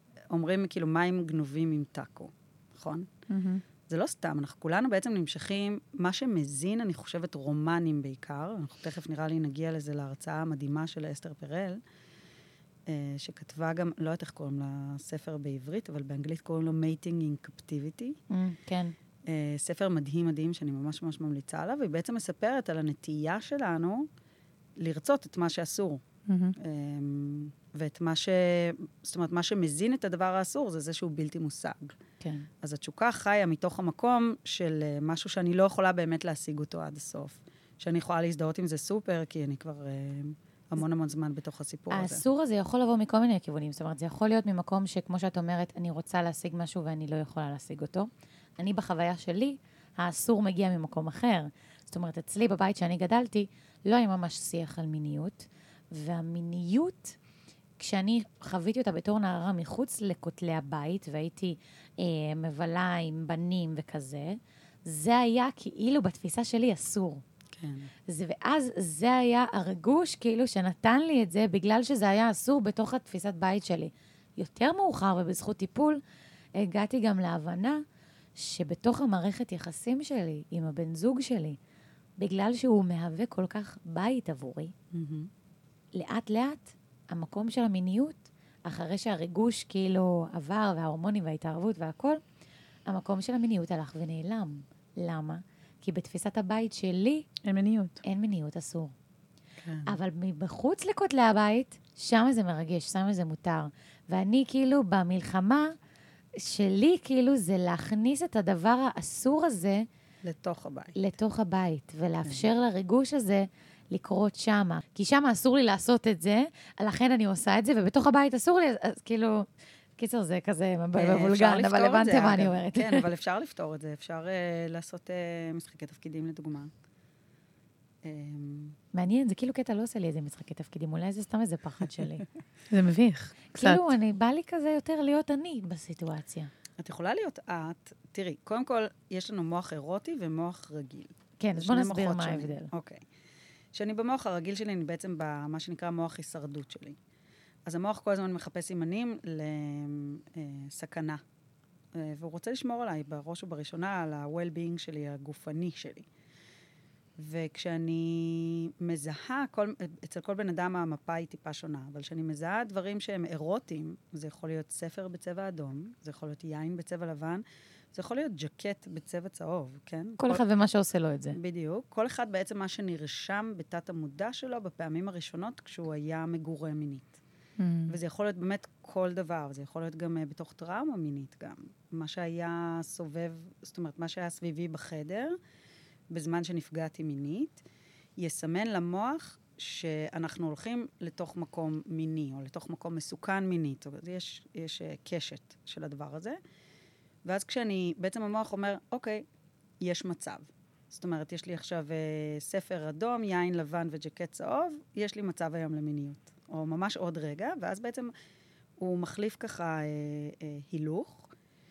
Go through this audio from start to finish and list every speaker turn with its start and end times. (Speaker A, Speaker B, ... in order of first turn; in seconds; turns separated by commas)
Speaker A: 0.3-3.1, Speaker B: 3.3-3.6, Speaker A: 3.9-11.8, Speaker A: 12.9-18.2, Speaker C: 18.3-18.9, Speaker A: 19.3-24.1, Speaker A: 24.8-26.0, Speaker B: 26.3-26.5, Speaker A: 26.6-32.0, Speaker C: 32.2-32.5, Speaker A: 32.6-42.2, Speaker C: 41.9-57.2, Speaker C: 57.8-67.2, Speaker A: 67.5-67.9, Speaker C: 68.1-76.0, Speaker C: 76.6-77.8, Speaker C: 78.3-81.6, Speaker C: 82.2-84.7, Speaker A: 84.9-85.3, Speaker C: 85.9-92.2, Speaker C: 92.9-97.2, Speaker B: 97.4-98.0, Speaker C: 98.0-98.9, Speaker A: 99.6-100.0, Speaker C: 99.8-105.7, Speaker C: 106.4-109.8, Speaker A: 110.2-111.0, Speaker C: 111.0-119.5, Speaker C: 120.0-123.0, Speaker A: 121.0-126.7, Speaker A: 128.0-128.8, Speaker C: 128.9-132.2, Speaker B: 132.7-133.8, Speaker C: 133.6-136.5, Speaker A: 136.8-143.0, Speaker C: 141.4-142.7, Speaker A: 143.7-147.0, Speaker A: 147.7-151.2, Speaker A: 151.9-156.1, Speaker A: 157.2-170.4, Speaker C: 170.2-171.4, Speaker A: 171.3-177.2, Speaker B: 177.6-177.9, Speaker A: 177.9-185.3, Speaker A: 186.1-187.6, Speaker A: 188.2-196.4, Speaker A: 197.2-199.2, Speaker A: 199.8-208.1, Speaker A: 208.8-211.3